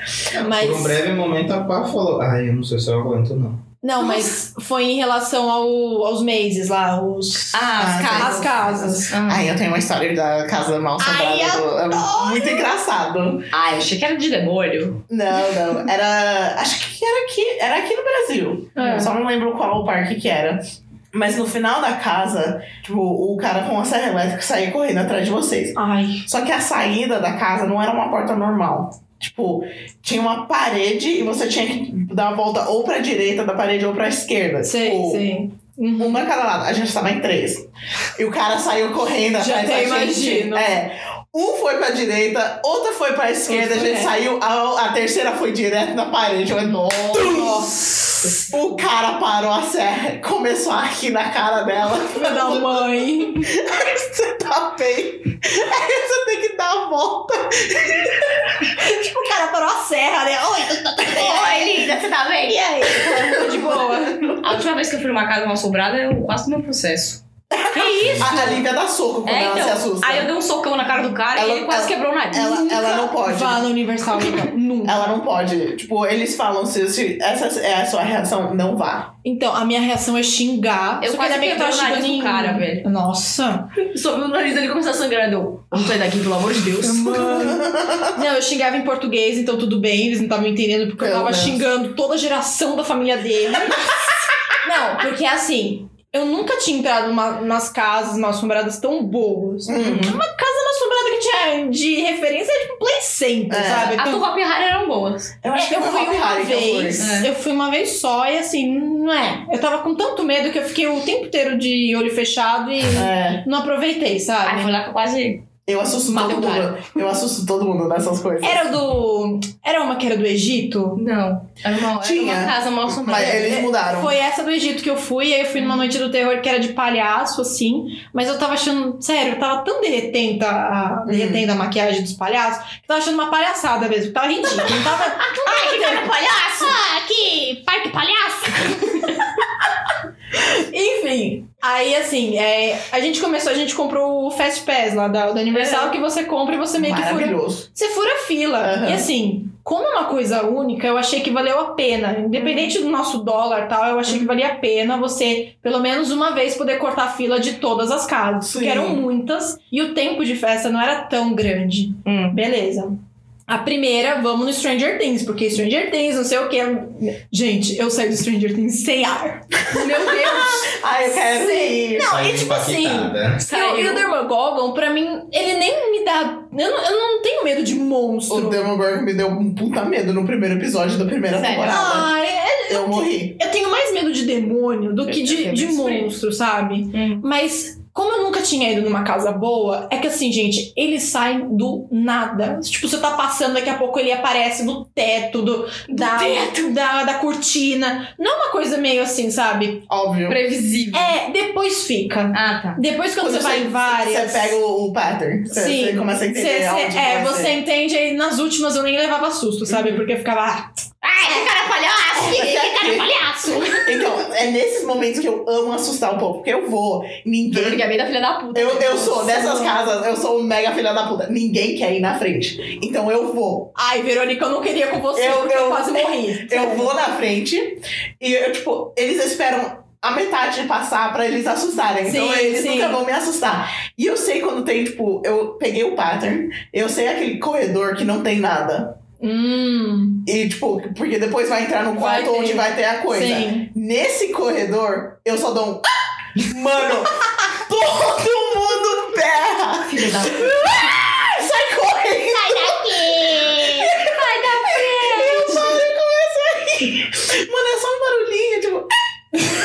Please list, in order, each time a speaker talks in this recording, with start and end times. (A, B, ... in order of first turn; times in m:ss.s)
0:00.3-0:01.0 A
0:00.4-0:03.6 B
0:03.8-0:09.2 A
0:07.5-0:09.5 C
0:07.8-0:13.5 D
0:11.0-0:12.7 E
0:13.5-0:15.0 C
0:15.1-0:35.3 D
0:18.8-0:19.1 A
0:18.8-0:19.1 C
0:25.8-0:26.3 A
0:34.6-0:36.3 A
0:36.0-0:58.3 D
0:39.4-0:40.8 A
0:43.5-0:44.1 A
0:46.7-0:47.6 C
0:47.2-0:47.8 A
0:48.2-0:48.6 C
0:52.1-0:53.5 A
0:58.7-1:01.2 A
1:01.0-1:01.6 E
1:01.1-1:03.1 C
1:01.2-1:01.9 D
1:02.9-1:04.4 A
1:03.0-1:04.4 D
1:04.4-1:07.2 C
1:07.5-1:10.3 D
1:07.7-1:08.6 A
1:07.7-1:08.6 C
1:08.1-1:08.4 B
1:09.2-1:12.7 C
1:11.3-1:19.1 D
1:12.4-1:15.1 A
1:19.2-1:23.7 A
1:21.0-1:22.9 C
1:23.8-1:27.2 C
1:26.8-1:33.9 A
1:27.2-1:28.1 D
1:31.0-1:31.6 D
1:34.6-1:44.3 A
1:39.7-1:40.2 D
1:39.8-1:40.1 C
1:43.5-1:44.0 D
1:43.9-1:45.4 C
1:45.4-1:47.1 D
1:45.5-1:54.7 A
1:47.0-1:47.3 C
1:52.9-1:53.4 D
1:54.4-1:55.4 C
1:55.7-1:58.7 D
1:56.1-1:56.6 A
1:56.1-1:56.7 C
1:58.4-2:01.0 A
2:01.0-2:03.7 C
2:02.0-2:04.2 D
2:03.4-2:16.7 A
2:05.6-2:05.9 C
2:11.1-2:11.5 D
2:15.2-2:19.1 E
2:20.4-2:43.0 A
2:25.5-2:25.9 C
2:26.8-2:27.7 D
2:28.6-2:29.1 D
2:32.4-2:32.7 C
2:38.4-2:39.0 D
2:42.0-2:42.4 C
2:43.5-2:58.7 A
2:50.2-2:52.2 D
2:52.0-2:53.4 B
2:53.5-2:54.1 C
2:58.3-3:02.1 D
3:01.3-3:01.9 C
3:01.6-3:19.9 A
3:02.7-3:03.4 D
3:05.1-3:06.1 C
3:06.9-3:07.3 C
3:15.9-3:16.8 C
3:19.9-3:20.4 D
3:20.3-3:21.2 C
3:20.9-3:24.6 A
3:22.3-3:22.8 C
3:23.2-3:27.6 D
3:25.5-3:30.9 A
3:29.7-3:30.0 D
3:31.0-3:34.1 E
3:32.1-3:33.2 D
3:33.8-3:37.8 D
3:37.5-3:39.8 C
3:38.5-3:43.7 D
3:43.8-3:47.0 A
3:45.2-3:59.0 D
3:52.0-3:53.0 A
3:59.2-4:00.2 A
4:00.3-4:05.8 D
4:02.0-4:03.7 A
4:06.4-4:18.9 D
4:09.9-4:10.9 C
4:12.3-4:14.0 E
4:14.0-4:15.7 C